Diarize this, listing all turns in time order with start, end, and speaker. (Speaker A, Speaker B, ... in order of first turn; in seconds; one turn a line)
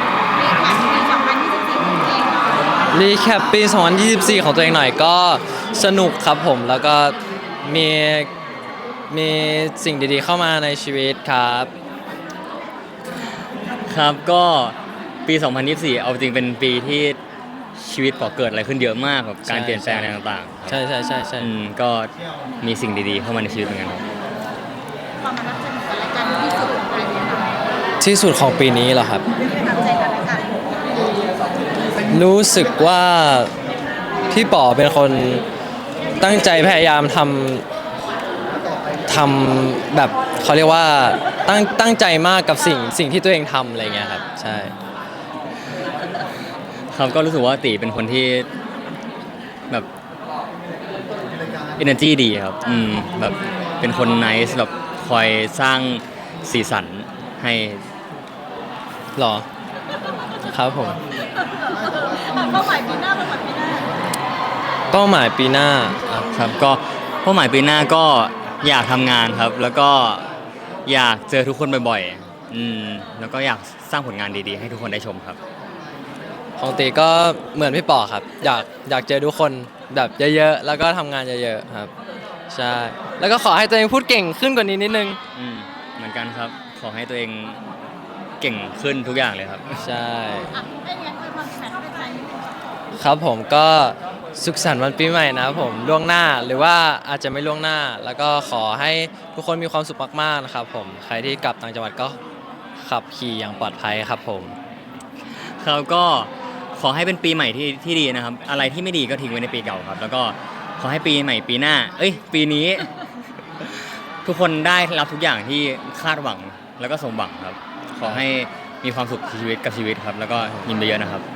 Speaker A: 0.4-2.7
Speaker B: 2.9-8.3
Speaker B: 9.1-11.7
Speaker C: 13.9-17.2
Speaker C: 17.7-20.8
Speaker B: 19.4-20.1
Speaker B: 20.7-21.5
Speaker C: 21.4-24.1
Speaker A: 25.2-27.6
Speaker B: 28.0-29.2
Speaker A: 29.4-30.8
Speaker B: 32.1-33.5
Speaker B: 34.3-35.4
Speaker B: 36.2-37.6
Speaker B: 39.1-44.7
Speaker C: 46.9-48.5
Speaker C: 51.8-57.8
Speaker B: 59.1-59.5
Speaker B: 60.4-61.0
Speaker A: 61.9-63.9
Speaker B: 64.9-66.0
Speaker C: 66.1-70.3
Speaker C: 70.8-75.4
Speaker B: 76.6-81.9
Speaker B: 82.5-85.2
Speaker C: 85.3-87.6
Speaker C: 88.4-89.7
Speaker B: 89.8-90.5
Speaker A: 90.6-92.4
Speaker B: 93.0-102.2
Speaker B: 102.8-104.5
Speaker C: 105.6-112.9
Speaker C: 113.6-121.2